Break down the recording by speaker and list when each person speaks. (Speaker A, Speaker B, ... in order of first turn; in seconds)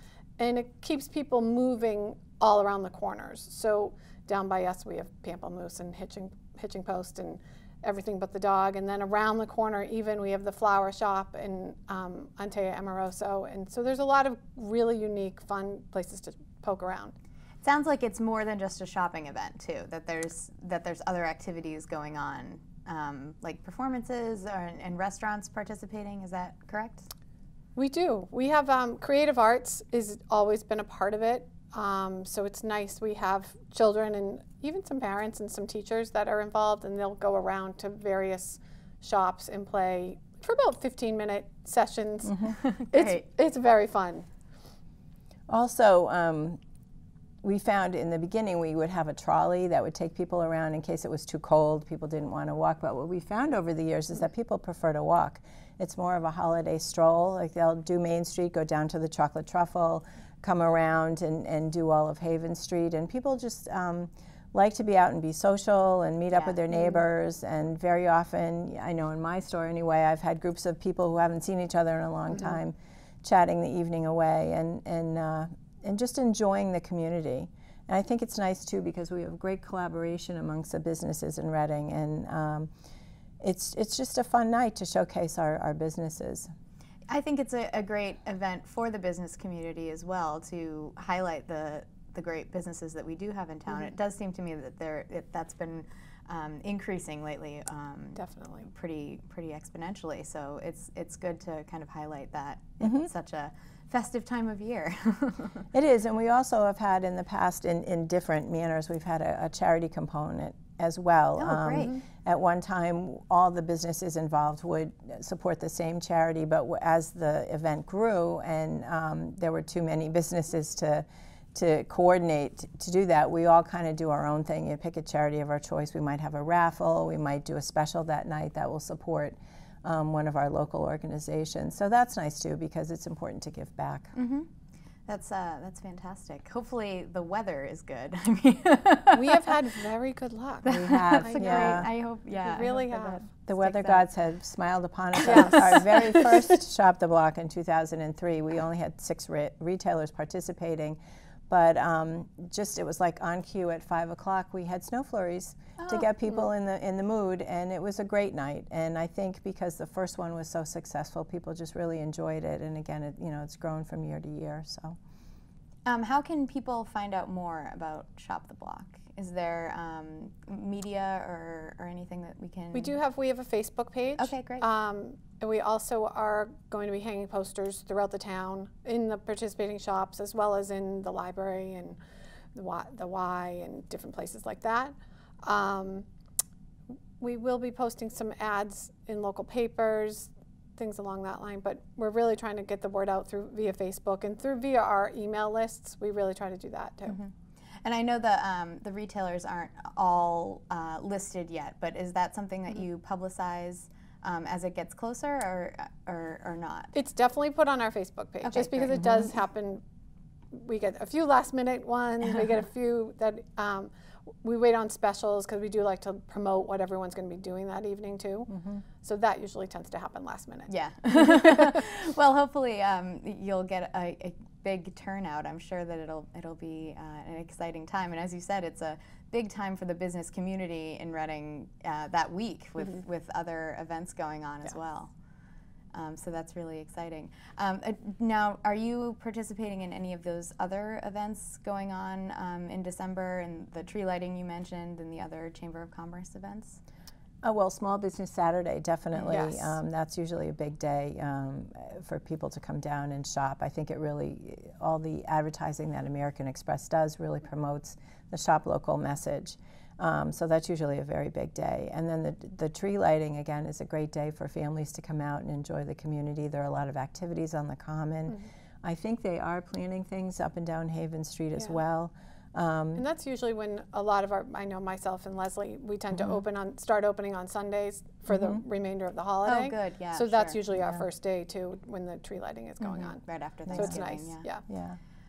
Speaker A: 0.4-17.1, 27.8-44.3, 98.2-98.7, 139.2-143.4, 145.2-146.3, 172.7-182.0, 182.5-186.1, 187.2-197.2, 206.9-209.8, 210.5-218.5, 219.0-221.8, 249.2-249.8, 272.9-284.6
Speaker B: 17.6-27.1, 42.6-43.2, 66.3-66.9, 87.1-105.7, 111.4-112.0, 134.2-134.5, 135.1-139.6, 140.6-144.1, 145.3-145.7, 155.8-156.4, 165.9-173.0, 174.2-174.7, 197.1-197.3, 197.8-206.9, 208.4-209.3, 220.7-235.1, 235.9-246.8, 279.4-280.6, 282.8-284.4
Speaker C: 45.5-46.6, 47.4-82.7, 83.4-86.5, 102.8-103.1, 105.7-134.2, 140.7-141.9, 143.5-165.0, 218.5-218.8, 247.4-273.1, 284.7-285.0